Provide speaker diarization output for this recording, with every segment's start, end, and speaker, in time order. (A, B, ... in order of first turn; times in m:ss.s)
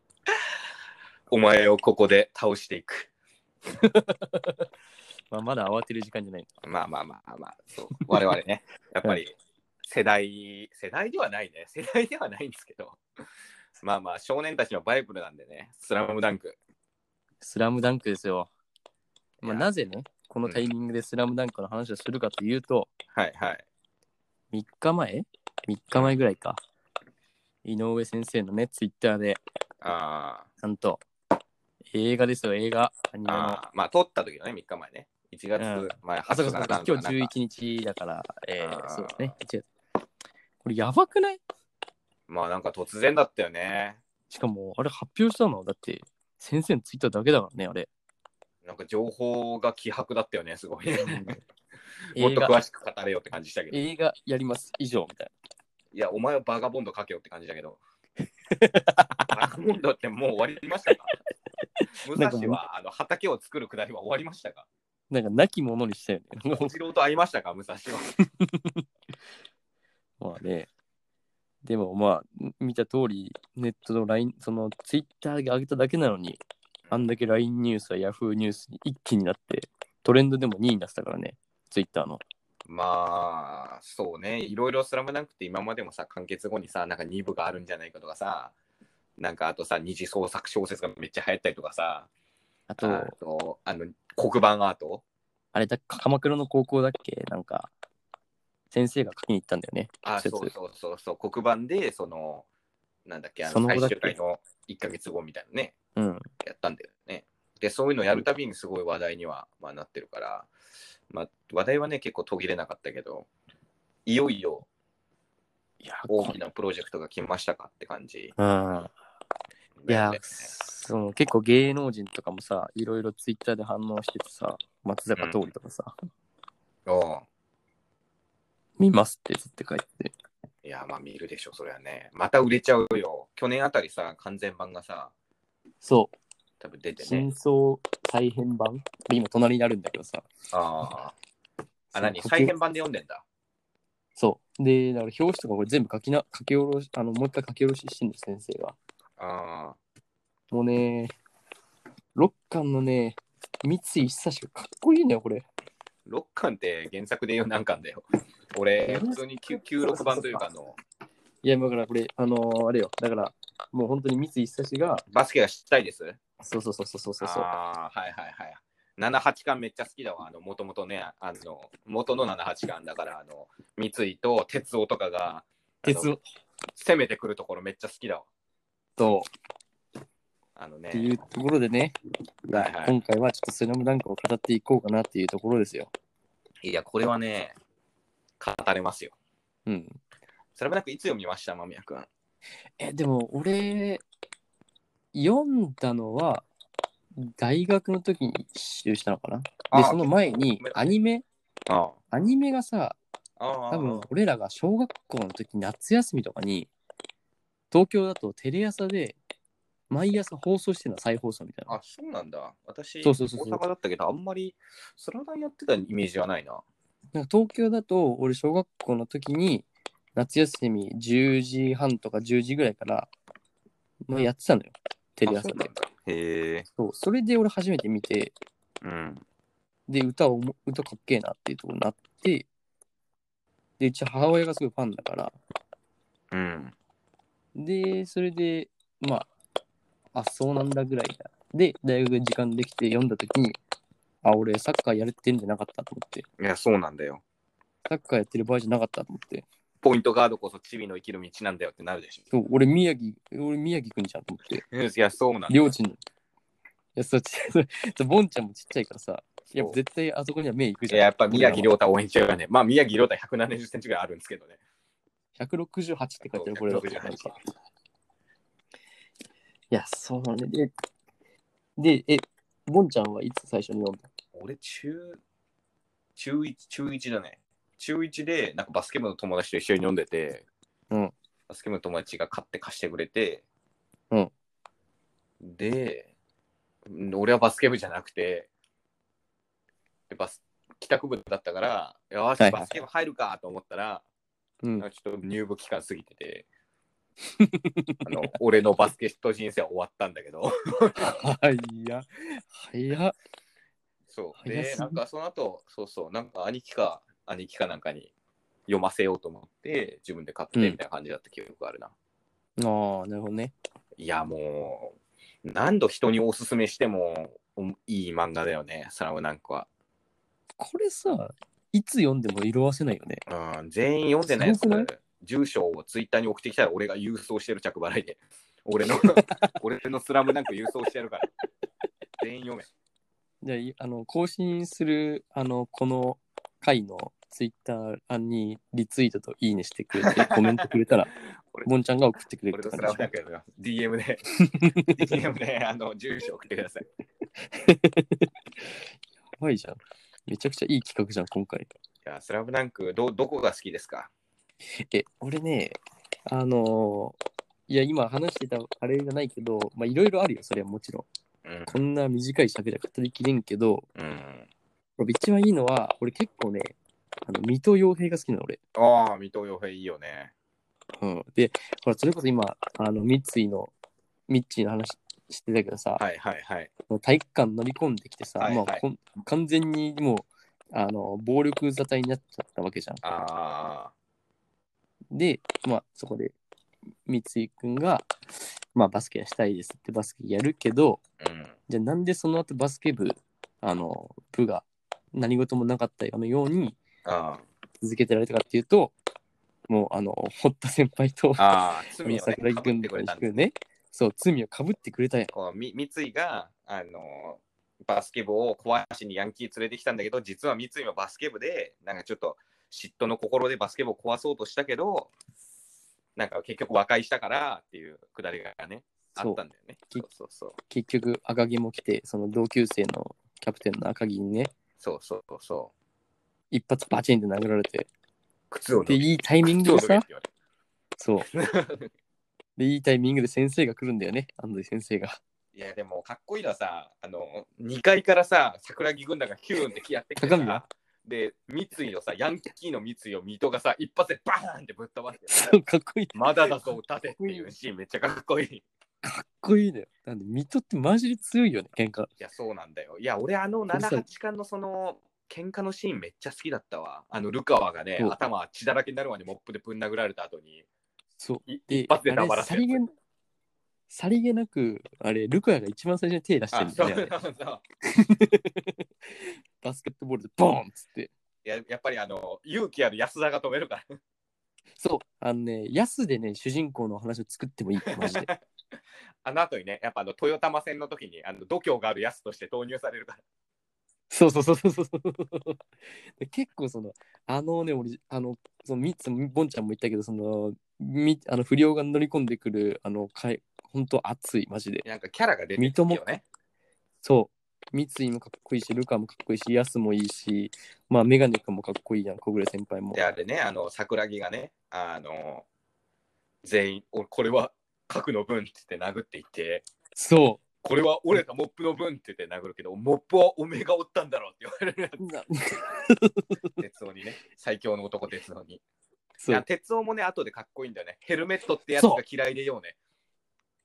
0:01.3-0:03.1 A
0:03.7-0:04.6 B
0:05.3-0:06.5 B
0:06.6-0:13.0 A
0:13.8-0:16.6 A
0:17.4-0:18.5 B
0:19.4-0:22.9 B
0:19.4-0:19.7 A
0:23.1-0:23.6 A
0:24.5-0:26.6 B
0:27.6-0:29.4 B
0:29.8-0:30.5 A
0:30.6-0:31.0 B
0:31.9-0:33.6 B
0:33.3-0:37.3 A
0:35.6-0:39.7 B
0:38.6-0:39.3 A
0:40.6-0:41.4 B
0:42.3-0:44.0 A
0:44.3-0:47.9 B
0:48.6-0:51.3 A
0:51.0-0:51.3 B
0:52.1-0:53.8 A
0:52.2-0:52.6 B
0:53.7-0:55.3 B
0:55.9-0:57.8 A
0:58.5-0:59.4 B
0:59.3-1:01.1 A
1:00.9-1:01.1 B
1:01.8-1:02.6 B
1:02.0-1:04.6 A
1:05.1-1:06.7 B
1:06.5-1:08.1 A
1:08.2-1:08.8 B
1:10.2-1:10.7 B
1:11.6-1:22.2 B
1:22.6-1:28.5 A
1:29.2-1:32.1 A
1:32.7-1:33.1 B
1:32.8-1:35.0 A
1:35.5-1:37.7 B
1:38.7-1:40.5 B
1:40.0-1:42.4 A
1:43.0-1:45.7 A
1:43.4-1:44.2 B
1:46.0-1:46.2 B
1:46.4-1:50.5 A
1:51.1-1:53.3 A
1:54.0-1:54.7 A
1:55.8-1:56.4 B
1:56.1-1:58.3 A
1:58.4-1:58.9 B
1:59.8-2:00.5 A
1:59.9-2:05.9 B
2:05.2-2:05.4 A
2:06.8-2:07.2 A
2:08.8-2:10.1 B
2:10.6-2:15.1 A
2:15.8-2:16.1 B
2:16.6-2:17.3 A
2:17.0-2:20.3 B
2:20.5-2:21.1 A
2:21.9-2:22.5 B
2:21.9-2:23.2 A
2:24.2-2:28.8 B
2:29.2-2:29.8 A
2:30.5-2:31.1 B
2:32.2-2:35.4 B
2:36.0-2:40.7 A
2:38.8-2:40.4 B
2:41.4-2:45.0 B
2:45.1-2:46.2 A
2:46.4-2:47.5 B
2:47.2-2:56.1 A
2:55.8-2:56.2 B
2:56.8-2:58.3 A
2:59.0-2:59.3 B
3:00.6-3:01.2 A
3:00.9-3:05.9 B
3:02.5-3:02.9 A
3:06.6-3:07.5 A
3:08.4-3:09.1 A
3:09.6-3:10.0 B
3:10.6-3:12.1 A
3:12.8-3:14.0 B
3:15.1-3:16.4 B
3:17.2-3:21.2 B
3:19.7-3:20.9 A
3:21.7-3:22.0 A
3:22.1-3:23.0 B
3:23.4-3:24.0 A
3:23.7-3:26.7 B
3:27.7-3:29.2 B
3:29.9-3:31.8 B
3:31.7-3:36.6 A
3:33.0-3:33.6 B
3:37.1-3:43.1 B
3:44.1-3:45.7 B
3:45.2-3:46.7 A
3:46.8-3:48.3 B
3:48.8-3:49.2 A
3:49.9-3:52.5 B
3:53.8-3:55.4 B
3:56.3-3:56.7 A
3:57.5-3:59.3 B
4:00.1-4:03.6 B
4:04.2-4:06.2 B
4:06.4-4:07.2 A
4:07.9-4:09.4 B
4:09.8-4:12.2 A
4:12.3-4:14.6 B
4:14.6-4:15.7 A
4:15.5-4:16.0 B
4:17.0-4:21.7 B
4:20.9-4:24.6 A
4:25.4-4:27.4 B
4:26.2-4:27.3 A
4:29.7-4:30.7 B
4:31.8-4:34.0 B
4:34.3-4:35.2 A
4:36.2-4:40.4 A
4:41.5-4:43.4 A
4:45.4-4:46.1 A
4:46.9-4:48.5 A
4:50.1-4:54.0 A
4:52.4-4:52.7 B
4:54.8-4:56.4 A
4:57.4-4:58.3 B
4:58.0-5:01.1 A
5:01.0-5:03.1 B
5:04.1-5:08.1 A
5:04.4-5:05.0 B
5:08.7-5:11.9 A
5:12.6-5:13.5 B
5:14.0-5:19.7 A
5:20.6-5:23.2 B
5:23.3-5:31.3 A
5:24.3-5:24.9 B
5:29.1-5:29.5 B
5:32.2-5:32.7 A
5:33.4-5:41.1 B
5:40.1-5:40.6 A
5:41.3-5:41.7 A
5:41.6-5:43.1 B
5:42.5-5:44.2 A
5:44.4-5:45.0 B
5:44.8-5:46.8 A
5:47.4-5:48.8 B
5:49.4-5:51.7 B
5:52.0-5:54.1 A
5:54.7-5:57.2 B
5:57.7-6:01.0 B
6:01.4-6:01.8 A
6:01.7-6:03.8 B
6:04.0-6:04.5 A
6:05.0-6:06.7 B
6:07.2-6:08.6 B
6:08.7-6:10.3 A
6:11.0-6:13.7 B
6:14.3-6:16.0 B
6:16.0-6:16.7 A
6:16.9-6:23.0 B
6:18.4-6:18.8 A
6:23.0-6:23.9 A
6:25.1-6:26.3 B
6:27.0-6:28.1 B
6:28.7-6:31.0 B
6:31.2-6:31.5 A
6:31.7-6:36.8 B
6:37.0-6:37.4 A
6:37.8-6:38.9 B
6:39.7-6:41.5 B
6:41.4-6:43.4 A
6:42.0-6:45.3 B
6:45.3-6:55.1 A
6:56.2-7:00.6 A
6:59.2-7:00.0 B
7:00.7-7:04.5 B
7:04.8-7:05.7 A
7:06.5-7:07.9 B
7:08.5-7:10.3 A
7:08.8-7:10.0 B
7:11.0-7:11.3 B
7:11.2-7:11.9 A
7:12.6-7:15.2 B
7:15.5-7:25.6 A
7:20.2-7:20.6 B
7:25.3-7:27.5 B
7:26.1-7:28.6 A
7:29.0-7:32.1 B
7:32.2-7:40.6 A
7:33.7-7:34.1 B
7:41.2-7:42.9 B
7:41.5-7:42.8 A
7:43.9-7:47.1 B
7:46.5-7:47.6 A
7:47.8-7:51.1 B
7:51.4-7:53.8 A
7:54.8-7:58.3 B
7:57.9-7:58.4 A
7:59.2-8:03.2 A
8:04.1-8:05.6 B
8:06.2-8:14.8 B
8:14.8-8:16.2 A
8:15.6-8:16.0 B
8:17.0-8:23.1 B
8:22.9-8:25.4 A
8:26.4-8:29.7 A
8:29.9-8:30.4 B
8:30.6-8:35.0 A
8:35.0-8:36.4 B
8:36.6-8:38.6 A
8:39.2-8:39.4 B
8:39.3-8:42.8 A
8:41.8-8:42.0 B